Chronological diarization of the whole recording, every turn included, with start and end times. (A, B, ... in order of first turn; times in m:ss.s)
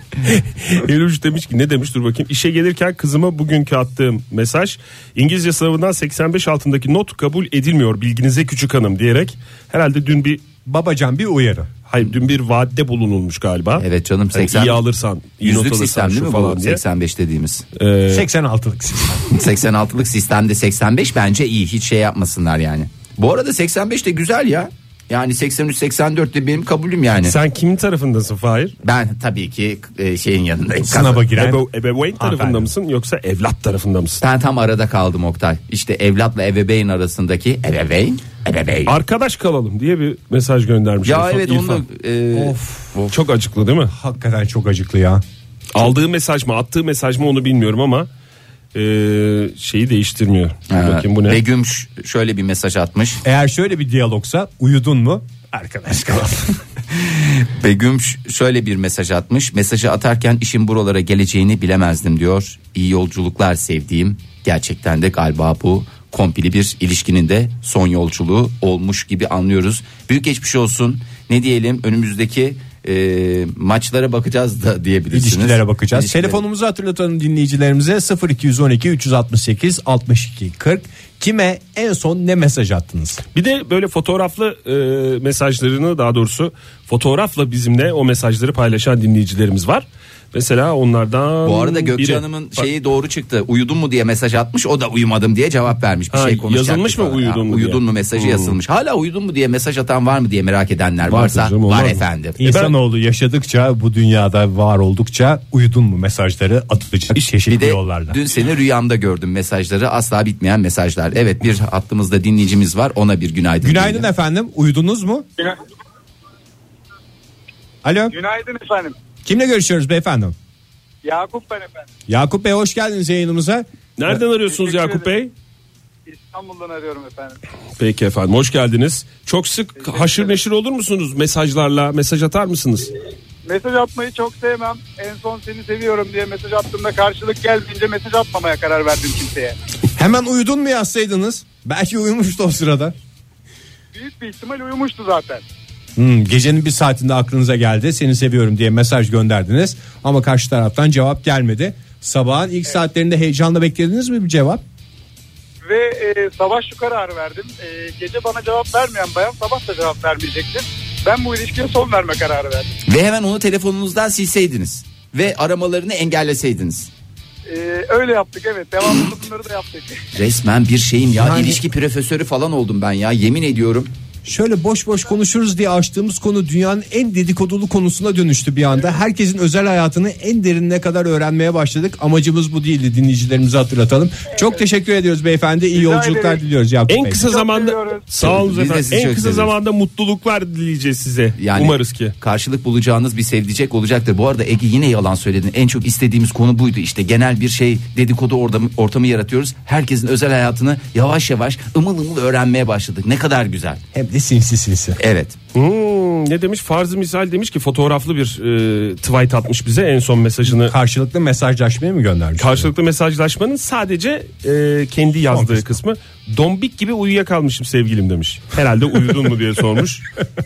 0:00.2-0:10.4 A
0:10.6-0:11.7 B
0:11.9-0:16.8 A
0:13.8-0:14.8 C
0:15.4-0:17.6 C
0:17.8-0:18.2 A
0:18.1-0:19.3 B
0:19.3-0:27.3 C
0:27.2-0:28.7 A
0:28.8-0:31.2 C
0:30.8-0:31.7 B
0:31.3-0:34.2 A
0:32.2-0:32.7 B
0:34.2-0:38.9 C
0:38.9-0:41.8 A
0:41.0-0:43.1 C
0:42.3-0:42.9 B
0:43.1-0:43.9 A
0:43.9-0:45.2 B
0:45.7-0:48.1 A
0:48.7-0:51.4 A
0:50.7-0:53.2 C
0:53.2-0:56.6 B
0:56.9-1:16.4 C
1:15.1-1:23.2 B
1:23.3-1:32.7 A
1:31.4-1:42.4 C
1:36.1-1:38.6 A
1:41.1-1:42.7 A
1:42.4-1:48.2 B
1:47.4-1:54.1 C
1:53.6-1:55.3 B
1:57.8-1:58.1 B
1:58.1-1:59.0 D
1:59.2-2:00.3 B
2:01.0-2:01.9 D
2:02.1-2:04.2 B
2:04.0-2:05.3 A
2:04.4-2:05.1 D
2:06.0-2:07.4 D
2:07.8-2:12.9 A
2:09.8-2:10.4 D
2:13.4-2:19.6 D
2:20.0-2:23.0 B
2:23.9-2:25.4 D
2:26.0-2:34.6 B
2:35.6-2:42.7 D
2:42.9-2:46.9 C
2:47.5-2:50.0 D
2:50.1-2:53.9 C
2:51.1-2:51.6 B
2:54.2-3:07.2 B
3:05.7-3:06.4 D
3:06.9-3:12.1 A
3:07.2-3:08.0 D
3:08.2-3:09.5 C
3:11.4-3:23.8 C
3:23.9-3:25.0 B
3:25.0-3:25.4 C
3:25.5-3:30.7 A
3:30.5-3:32.7 B
3:32.4-3:40.1 A
3:35.3-3:35.8 B